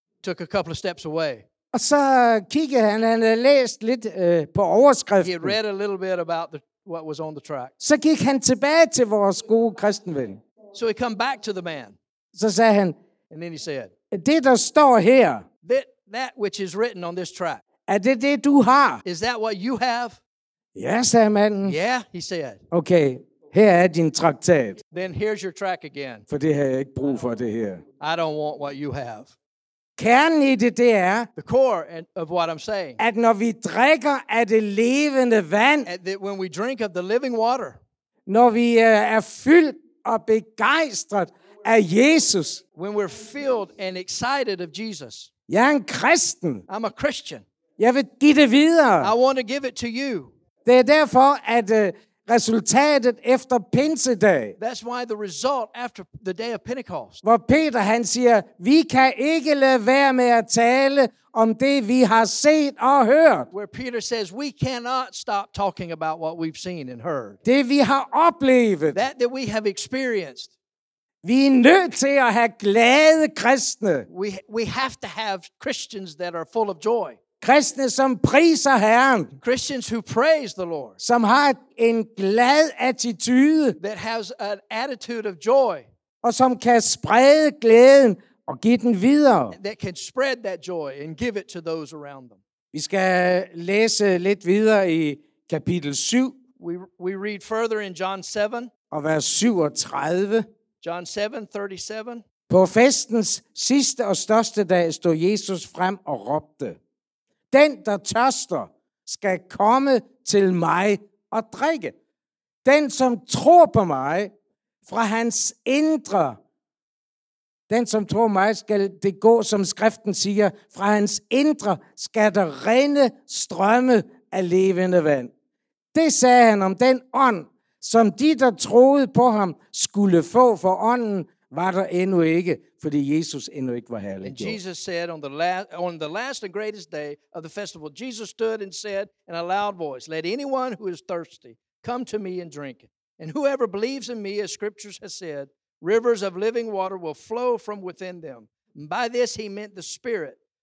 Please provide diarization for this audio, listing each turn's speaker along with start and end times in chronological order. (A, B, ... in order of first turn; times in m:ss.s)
0:00.2-0:01.4 A
0:01.7-0:05.6 B
0:05.2-0:07.7 A
0:07.8-0:10.4 B
0:10.7-0:12.0 A
0:12.3-0:12.9 B
0:13.3-0:13.9 A
0:14.1-0:15.4 B
0:15.6-0:17.6 A
0:17.9-0:19.0 B
0:19.0-0:20.2 A
0:20.7-0:21.8 B
0:21.6-0:22.6 A
0:22.7-0:24.8 B
0:24.9-0:26.2 A
0:26.3-0:27.8 B
0:28.0-0:29.3 A
0:30.0-0:31.3 B
0:31.4-0:33.0 A
0:33.0-0:35.9 B
0:35.8-0:37.8 A
0:38.3-0:42.6 B
0:42.8-0:45.3 A
0:45.5-0:46.6 B
0:46.7-0:47.4 A
0:47.8-0:49.1 B
0:49.0-0:50.3 A
0:50.6-0:54.6 B
0:54.6-0:57.2 A
0:57.2-1:03.5 B
1:03.5-1:07.4 A
1:07.4-1:09.0 B
1:08.9-1:10.5 A
1:11.2-1:14.1 B
1:14.1-1:17.2 A
1:17.4-1:19.3 B
1:19.4-1:21.0 A
1:21.0-1:23.8 B
1:23.8-1:25.8 A
1:26.2-1:29.6 B
1:29.5-1:32.4 A
1:32.7-1:36.4 B
1:36.6-1:38.7 A
1:38.9-1:40.4 B
1:40.8-1:42.2 A
1:42.5-1:46.8 B
1:47.5-1:51.9 B
1:52.6-1:54.3 B
1:54.8-1:56.4 B
1:57.7-2:05.3 B
2:05.9-2:14.6 B
2:14.2-2:30.4 A